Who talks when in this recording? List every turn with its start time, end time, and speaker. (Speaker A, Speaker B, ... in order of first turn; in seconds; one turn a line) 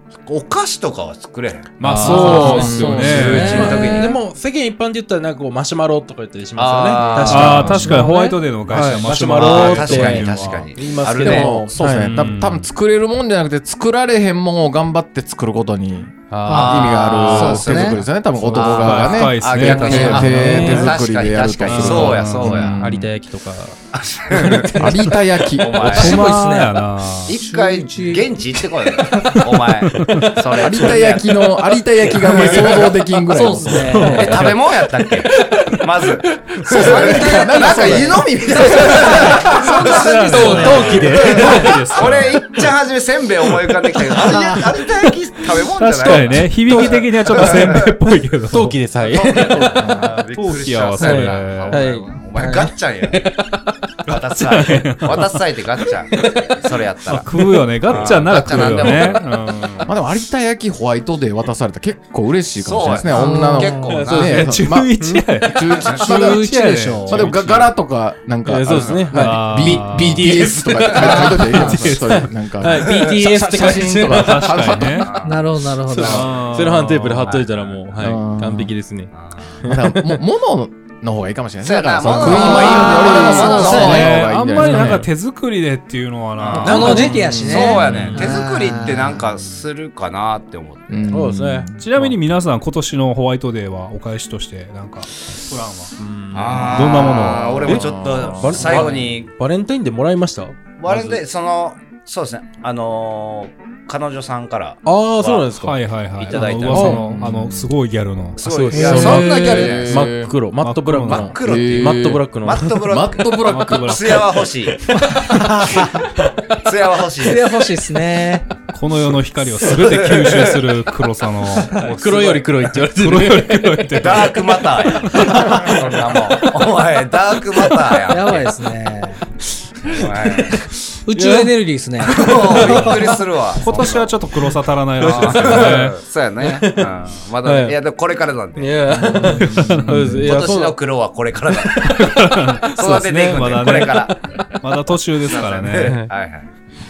Speaker A: 0.2-4.2
Speaker B: 1.8-3.7
Speaker C: 1.8-8.0
Speaker D: 2.0-4.2
Speaker E: 2.4-3.4
Speaker A: 6.6-7.8
Speaker B: 7.3-10.7
Speaker D: 7.4-8.4
Speaker C: 8.7-12.3
Speaker A: 9.3-11.6
Speaker E: 11.2-23.1
Speaker B: 11.9-12.7
Speaker C: 16.3-17.0
Speaker D: 16.5-18.0
Speaker A: 16.5-22.8
Speaker B: 17.3-17.6
Speaker B: 18.4-20.9
Speaker D: 19.9-20.2
Speaker C: 20.0-21.0
Speaker B: 21.6-22.7
Speaker C: 22.4-23.8
Speaker A: 23.9-24.9
Speaker C: 24.3-26.1
Speaker E: 24.8-26.0
Speaker A: 25.5-26.2
Speaker B: 25.8-27.4
Speaker D: 25.9-28.4
Speaker A: 27.3-31.6
Speaker B: 29.1-30.4
Speaker E: 30.6-34.2
Speaker A: 32.2-33.0
Speaker C: 32.4-32.8
Speaker D: 33.3-34.5
Speaker B: 33.9-34.6
Speaker A: 34.0-47.9
Speaker C: 35.2-35.6
Speaker E: 36.7-39.4
Speaker D: 36.7-41.7
Speaker B: 39.8-42.6
Speaker C: 39.9-42.0
Speaker C: 43.9-44.7
Speaker B: 45.7-48.8
Speaker C: 46.0-46.9
Speaker C: 48.5-50.0
Speaker A: 49.0-53.2
Speaker E: 49.2-50.2
Speaker B: 50.3-51.9
Speaker C: 51.0-53.8
Speaker B: 54.1-55.4
Speaker A: 54.1-59.3
Speaker C: 56.1-59.0
Speaker B: 57.1-59.9
Speaker E: 59.9-66.4
Speaker A: 62.6-64.4
Speaker D: 63.1-64.0
Speaker C: 63.8-65.3
Speaker B: 64.1-67.7
Speaker D: 65.9-67.3
Speaker E: 67.1-75.1
Speaker C: 68.5-75.1
Speaker A: 68.7-69.1
Speaker B: 69.1-70.5
Speaker D: 71.0-71.8
Speaker B: 71.5-72.3
Speaker B: 74.1-75.2
Speaker A: 75.0-75.4
Speaker D: 75.2-76.3
Speaker C: 75.9-80.2
Speaker B: 76.0-77.4
Speaker A: 77.3-77.7
Speaker E: 78.0-78.7
Speaker A: 79.2-79.5
Speaker E: 79.6-85.1
Speaker A: 81.6-84.2
Speaker D: 82.1-84.1
Speaker C: 82.5-83.5
Speaker B: 83.4-87.3
Speaker C: 84.6-85.1
Speaker A: 86.4-91.1
Speaker D: 86.6-89.2
Speaker C: 86.6-87.3
Speaker E: 87.2-88.1
Speaker B: 87.9-88.2
Speaker E: 90.9-91.8
Speaker C: 91.1-92.1
Speaker B: 91.8-95.9
Speaker C: 96.0-101.2
Speaker A: 96.3-99.3
Speaker B: 96.5-97.8
Speaker E: 97.6-98.9
Speaker A: 100.8-105.5
Speaker C: 104.8-107.2
Speaker B: 105.6-108.4
Speaker A: 106.2-107.1
Speaker E: 106.8-107.7
Speaker A: 108.4-110.1
Speaker C: 108.4-112.9
Speaker D: 108.7-109.7
Speaker E: 108.9-110.3
Speaker B: 110.6-111.4
Speaker A: 111.1-114.9
Speaker E: 111.4-112.3
Speaker E: 112.8-114.2
Speaker B: 113.5-115.6
Speaker D: 115.0-115.5
Speaker A: 115.6-117.6
Speaker D: 117.2-118.5
Speaker B: 118.7-124.5
Speaker A: 119.7-120.6
Speaker C: 121.7-124.3
Speaker A: 124.0-128.5
Speaker B: 125.1-125.5
Speaker C: 125.2-126.6
Speaker D: 128.1-129.2
Speaker A: 129.8-130.7
Speaker C: 129.8-131.5
Speaker D: 131.1-133.2
Speaker C: 132.1-133.2
Speaker A: 132.1-134.2
Speaker B: 133.6-136.0
Speaker A: 135.0-139.0
Speaker C: 135.0-135.9
Speaker C: 136.4-137.8
Speaker C: 138.6-140.8
Speaker E: 139.0-140.3
Speaker B: 139.4-140.2
Speaker A: 140.2-142.1
Speaker C: 141.5-142.2
Speaker B: 141.8-146.0
Speaker A: 142.8-144.2
Speaker A: 145.2-146.5
Speaker C: 145.8-146.1